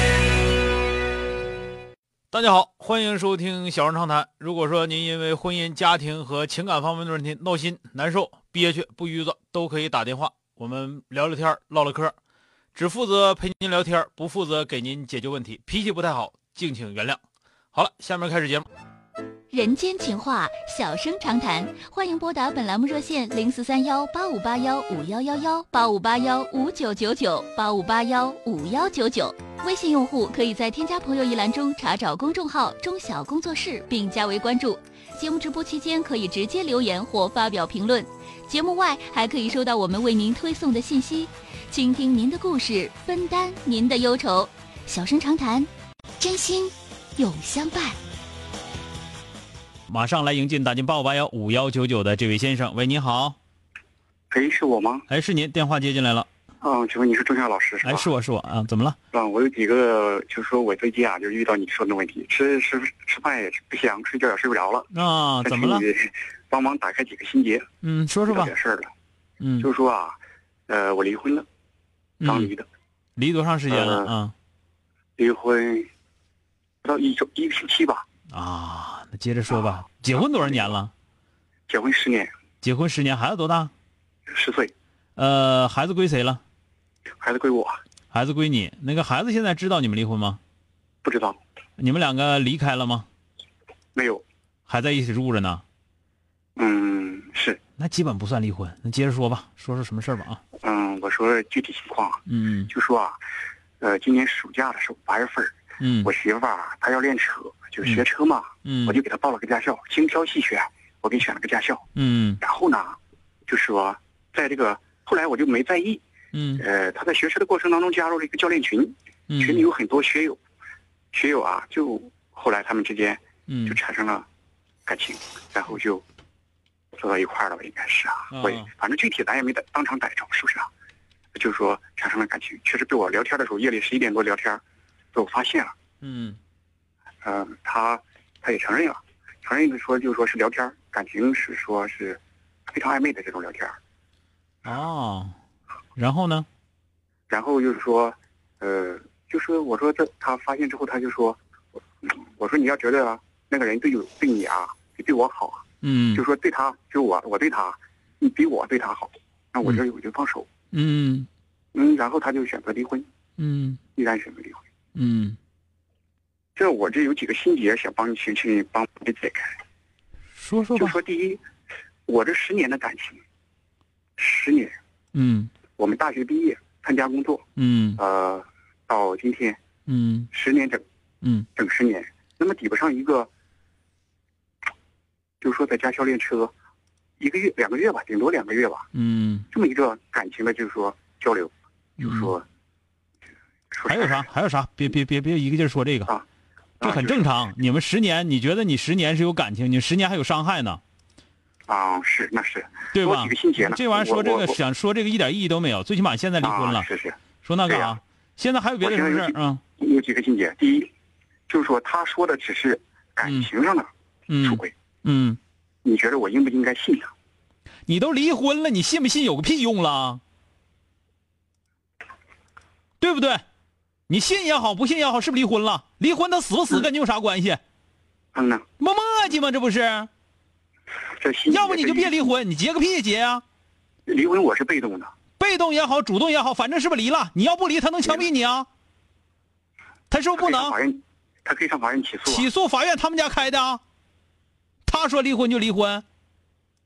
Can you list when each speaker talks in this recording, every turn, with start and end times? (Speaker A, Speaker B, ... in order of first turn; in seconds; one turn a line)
Speaker A: 2.3-12.1
Speaker A: 12.7-17.2
Speaker A: 17.7-18.6
Speaker B: 19.5-45.7
Speaker B: 46.2-48.0
Speaker A: 49.9-53.4
Speaker C: 54.3-55.0
Speaker A: 55.1-56.3
Speaker C: 56.6-58.1
Speaker A: 57.8-59.0
Speaker C: 59.1-64.9
Speaker A: 64.9-65.9
Speaker C: 65.4-67.7
Speaker A: 67.8-68.5
Speaker C: 68.3-68.9
Speaker A: 69.4-69.7
Speaker C: 69.6-70.2
Speaker C: 70.7-71.5
Speaker A: 72.2-72.5
Speaker C: 72.2-72.7
Speaker A: 73.2-74.3
Speaker C: 73.7-74.1
Speaker C: 75.2-75.9
Speaker C: 76.8-78.0
Speaker A: 78.3-80.9
Speaker C: 80.2-80.8
Speaker C: 81.7-82.3
Speaker A: 82.6-83.7
Speaker C: 84.3-84.7
Speaker A: 85.2-86.4
Speaker C: 87.2-87.8
Speaker A: 88.1-90.4
Speaker C: 91.0-91.4
Speaker A: 91.8-93.1
Speaker C: 94.0-94.2
Speaker A: 94.7-95.6
Speaker C: 96.6-97.6
Speaker A: 97.8-100.4
Speaker C: 100.6-103.2
Speaker A: 102.3-102.7
Speaker C: 103.8-111.8
Speaker A: 105.8-106.1
Speaker A: 108.6-109.0
Speaker A: 112.0-112.4
Speaker C: 112.4-116.0
Speaker A: 116.3-116.6
Speaker C: 116.6-120.4
Speaker A: 119.3-119.7
Speaker C: 121.1-124.2
Speaker A: 123.5-123.8
Speaker C: 124.9-126.0
Speaker C: 127.0-130.7
Speaker A: 128.3-128.7
Speaker C: 131.3-134.6
Speaker C: 135.1-135.7
Speaker A: 136.0-136.4
Speaker C: 137.2-143.8
Speaker A: 144.6-145.3
Speaker A: 146.0-146.4
Speaker C: 147.3-151.4
Speaker C: 152.1-160.5
Speaker A: 155.8-156.2
Speaker A: 160.7-161.3
Speaker C: 161.7-163.1
Speaker A: 163.4-163.8
Speaker C: 163.9-164.6
Speaker A: 164.9-165.4
Speaker C: 166.6-169.5
Speaker A: 170.4-171.0
Speaker C: 170.7-171.4
Speaker C: 172.1-173.2
Speaker C: 174.2-174.8
Speaker A: 175.1-175.5
Speaker C: 175.8-177.4
Speaker A: 177.6-178.0
Speaker C: 178.0-179.6
Speaker A: 179.9-180.3
Speaker C: 180.3-180.8
Speaker C: 181.6-183.3
Speaker C: 185.4-186.5
Speaker C: 187.2-188.8
Speaker A: 188.9-189.4
Speaker C: 189.5-192.4
Speaker A: 192.0-192.3
Speaker C: 193.7-194.2
Speaker A: 193.9-196.1
Speaker C: 196.8-197.3
Speaker A: 196.8-200.8
Speaker C: 201.7-204.6
Speaker A: 202.9-206.9
Speaker C: 206.4-208.0
Speaker A: 207.4-209.6
Speaker C: 208.8-210.9
Speaker C: 211.5-213.9
Speaker A: 214.3-215.4
Speaker C: 214.4-214.7
Speaker C: 215.8-217.1
Speaker A: 217.9-220.2
Speaker A: 223.0-223.4
Speaker A: 224.1-227.6
Speaker C: 228.3-228.7
Speaker A: 228.8-230.1
Speaker C: 231.2-232.3
Speaker A: 231.5-233.4
Speaker C: 234.1-235.1
Speaker A: 235.4-238.7
Speaker A: 240.1-240.8
Speaker C: 240.3-242.5
Speaker A: 242.3-243.8
Speaker A: 244.8-246.0